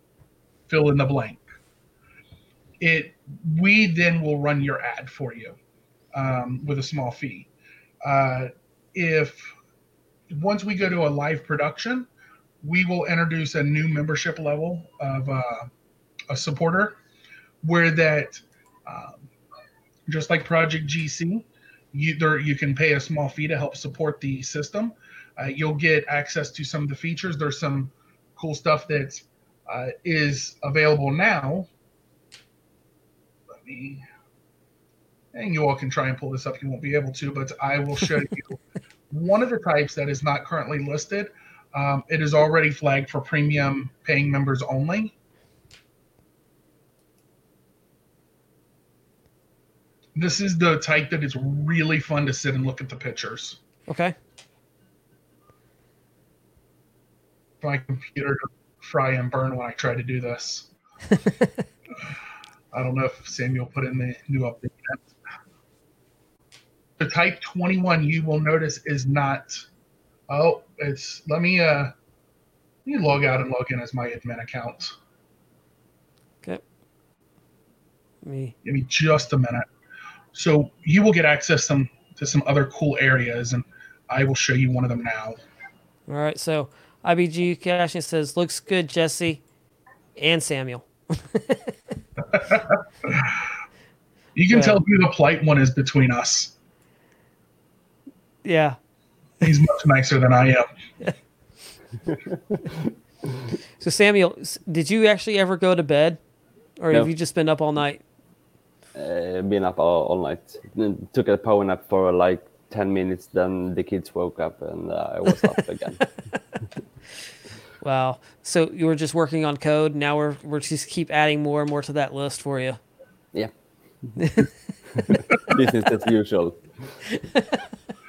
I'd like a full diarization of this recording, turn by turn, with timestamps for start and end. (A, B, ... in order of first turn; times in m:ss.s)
0:00.7-0:01.4 A
0:02.8-0:05.6 A
0:06.1-0:07.5 A
0:08.0-0:09.5 A
0:10.3-0:12.1 A
0:12.6-0:15.7 A
0:16.3-0:17.0 A
0:17.6-0:19.3 A
0:20.1-0:31.7 A
0:33.5-0:34.0 A
0:35.3-0:45.1 A
0:50.1-0:53.6 A
0:53.9-0:54.1 B
0:57.6-1:00.7 A
1:01.2-1:01.5 B
1:02.7-1:05.0 A
1:07.0-1:09.6 A
1:10.3-1:11.9 A
1:12.8-1:14.9 A
1:18.2-1:18.5 B
1:18.6-1:19.6 A
1:20.3-1:25.4 A
1:26.1-1:29.4 B
1:30.2-1:31.7 B
1:32.3-1:33.4 A
1:34.3-1:36.5 A
1:34.5-1:34.8 B
1:38.4-1:38.8 B
1:39.4-1:40.7 A
1:43.8-1:46.2 B
1:46.8-1:48.0 B
1:48.9-1:56.0 C
1:57.8-2:02.8 B
2:04.2-2:04.5 B
2:05.0-2:06.6 C